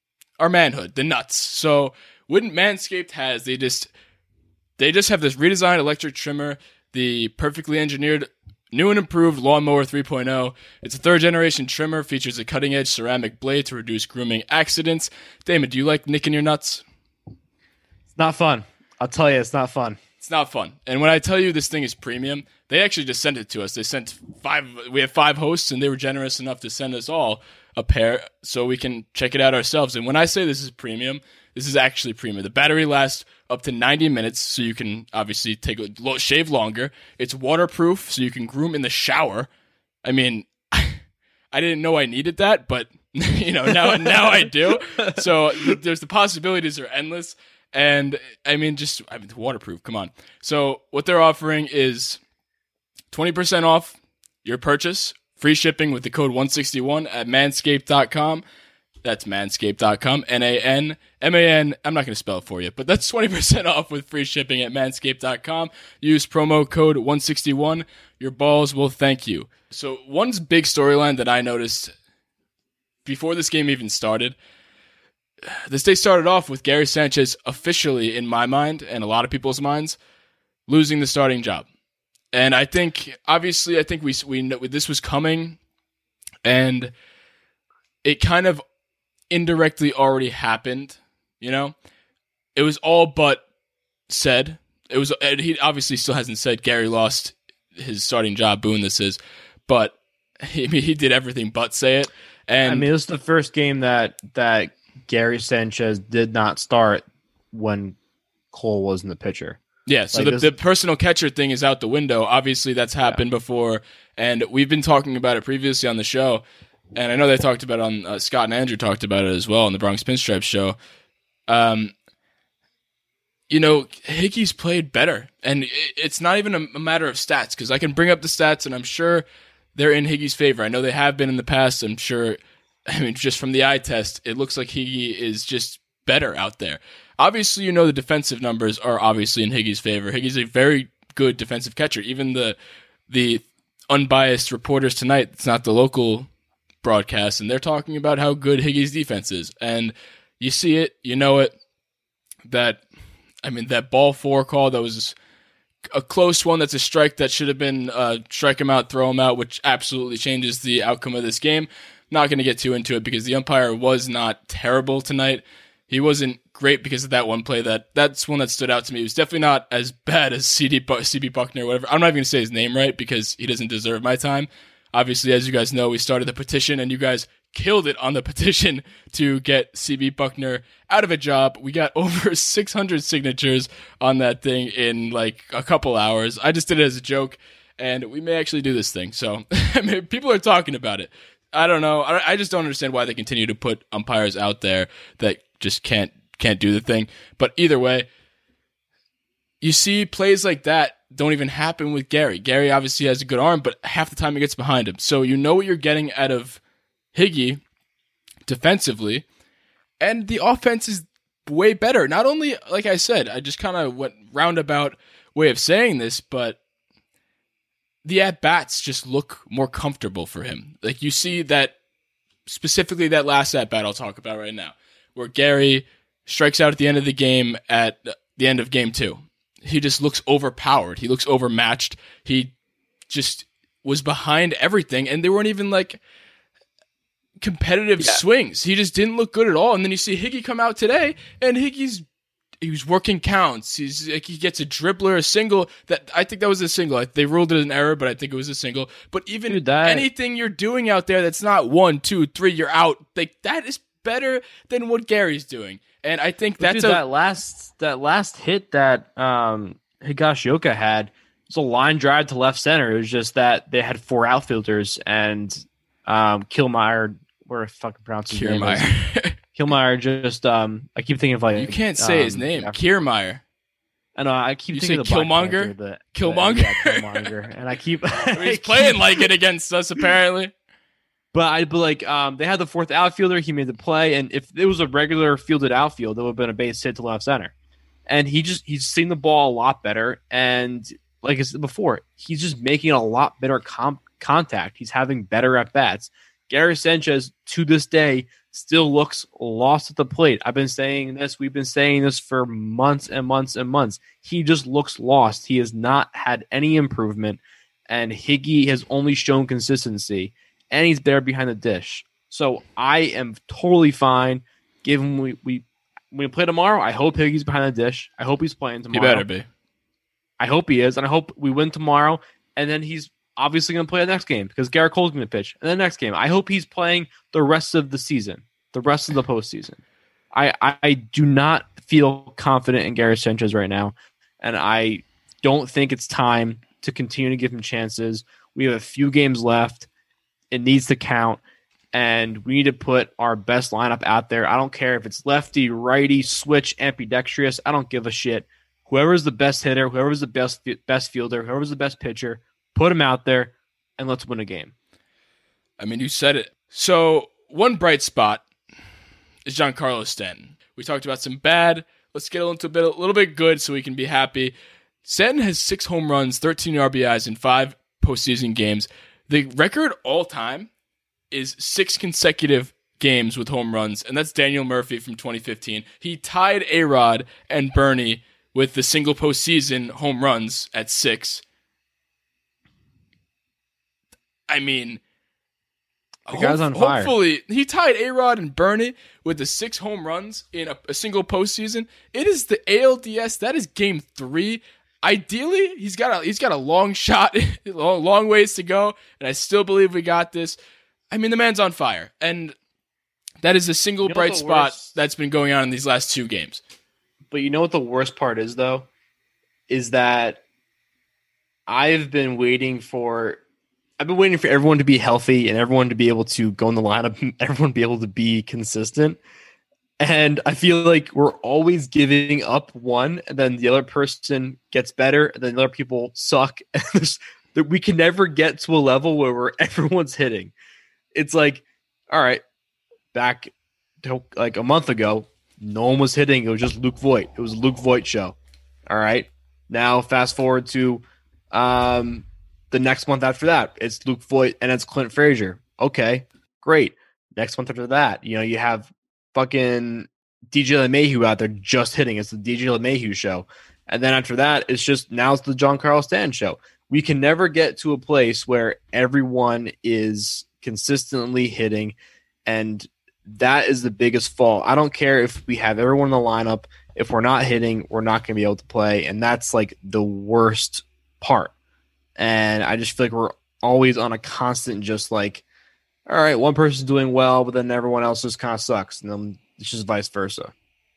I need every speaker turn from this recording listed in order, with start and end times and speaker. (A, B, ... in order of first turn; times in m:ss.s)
0:00.4-0:03.9 A
0:04.8-0:16.8 A
0:18.1-0:20.0 B
0:20.2-0:39.5 A
0:40.0-0:41.0 A
0:41.5-0:52.2 A
0:43.7-0:45.8 B
0:53.1-0:58.4 A
0:59.0-1:11.9 A
1:13.0-1:14.4 A
1:15.5-1:20.0 A
1:20.7-1:21.6 A
1:22.3-1:25.6 A
1:26.4-1:26.9 A
1:28.0-1:28.6 A
1:29.3-1:31.7 A
1:32.5-1:33.4 A
1:34.1-1:42.9 A
1:42.6-1:48.0 B
1:48.5-1:49.6 B
1:49.9-1:56.4 A
1:50.1-1:50.5 B
1:56.9-2:00.8 A
2:01.5-2:01.9 A
2:03.5-2:09.2 A
2:09.8-2:22.6 A
2:23.1-2:26.3 A
2:26.8-2:31.5 A
2:32.4-2:32.8 A
2:33.4-2:35.1 A
2:35.9-3:18.1 A
3:19.6-3:26.6 A
3:27.1-3:27.6 A
3:28.4-3:29.2 A
3:30.0-3:36.6 A
3:38.0-3:41.7 A
3:42.4-3:52.5 A
3:53.1-3:56.0 A
3:57.4-4:02.0 A
4:02.6-4:17.0 A
4:09.5-4:10.1 B
4:16.6-4:28.9 B
4:28.3-4:29.3 A
4:29.5-4:32.8 B
4:31.5-4:33.4 A
4:34.2-4:39.3 B
4:34.7-4:37.2 A
4:38.3-4:40.5 A
4:41.3-4:47.5 B
4:48.1-5:19.2 B
5:18.9-5:19.4 A
5:20.4-5:29.8 B
5:30.3-5:39.9 B
5:40.5-5:41.4 B
5:41.9-5:54.7 B
5:55.8-5:58.4 A
5:59.4-6:04.5 A
6:05.0-6:10.7 A
6:11.3-6:21.4 A
6:24.5-6:25.0 A
6:26.3-6:27.1 B
6:26.3-6:40.6 A
6:41.1-6:42.5 A
6:43.4-6:46.6 A
6:44.0-6:44.9 B
6:47.3-6:48.9 B
6:49.7-6:50.4 B
6:51.7-6:53.4 B
6:54.0-6:59.2 B
7:00.0-7:10.5 B
7:11.1-7:12.4 B
7:13.1-7:18.4 B
7:18.9-7:41.9 B
7:42.4-7:51.5 B
7:52.2-7:55.4 B
7:56.1-8:00.5 B